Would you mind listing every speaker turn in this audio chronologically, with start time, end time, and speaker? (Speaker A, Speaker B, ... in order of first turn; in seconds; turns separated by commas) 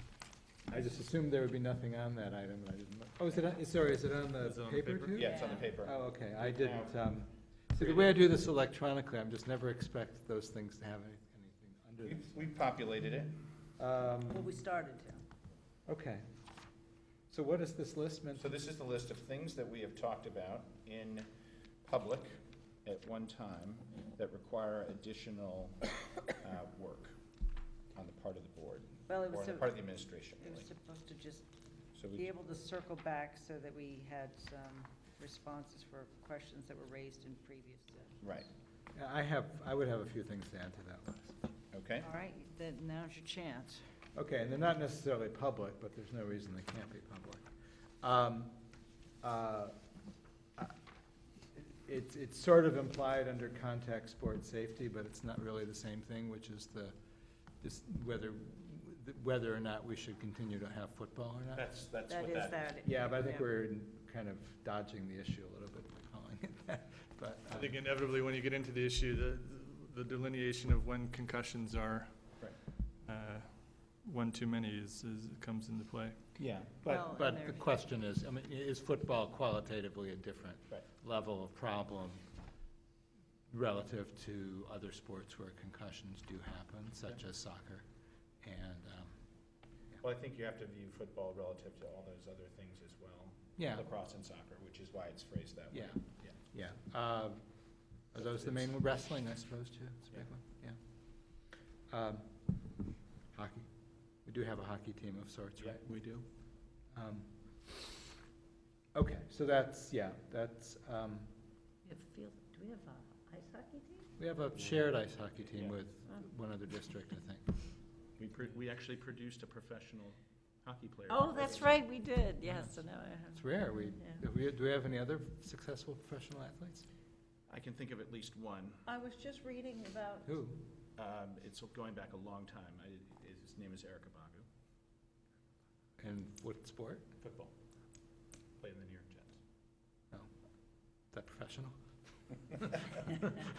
Speaker A: 0.7-12.5, Speaker B: 4.4-5.2, Speaker C: 5.1-7.0, Speaker D: 5.2-5.7, Speaker C: 7.8-8.2, Speaker C: 12.0-13.4, Speaker A: 13.8-14.6, Speaker D: 14.3-15.2, Speaker A: 15.9-16.2, Speaker A: 17.3-18.6, Speaker C: 18.4-21.3, Speaker C: 21.8-27.2, Speaker C: 27.9-30.7, Speaker D: 29.1-31.5, Speaker C: 31.9-32.3, Speaker D: 32.1-38.2, Speaker C: 38.2-38.5, Speaker A: 39.0-41.4, Speaker C: 41.7-42.1, Speaker D: 42.0-43.8, Speaker A: 44.1-47.5, Speaker A: 48.0-48.6, Speaker A: 49.2-49.8, Speaker A: 51.5-57.0, Speaker A: 57.6-61.7, Speaker C: 61.5-62.7, Speaker D: 62.1-63.5, Speaker A: 62.8-67.8, Speaker B: 67.5-72.2, Speaker B: 73.0-73.5, Speaker B: 74.0-76.2, Speaker C: 76.4-76.9, Speaker A: 76.6-82.2, Speaker D: 76.8-77.8, Speaker A: 83.5-87.9, Speaker A: 88.4-89.2, Speaker C: 90.0-96.4, Speaker A: 93.6-93.9, Speaker A: 95.7-105.8, Speaker C: 98.2-98.7, Speaker C: 105.6-106.3, Speaker A: 106.9-107.3, Speaker A: 108.9-111.3, Speaker D: 111.8-114.1, Speaker A: 114.2-117.6, Speaker C: 118.2-121.7, Speaker D: 121.1-124.2, Speaker A: 123.3-126.9, Speaker C: 127.5-128.8, Speaker D: 128.9-130.4, Speaker A: 130.2-130.6, Speaker C: 130.9-134.5, Speaker A: 136.0-137.1, Speaker C: 137.2-137.5, Speaker C: 138.6-139.4, Speaker A: 140.1-141.8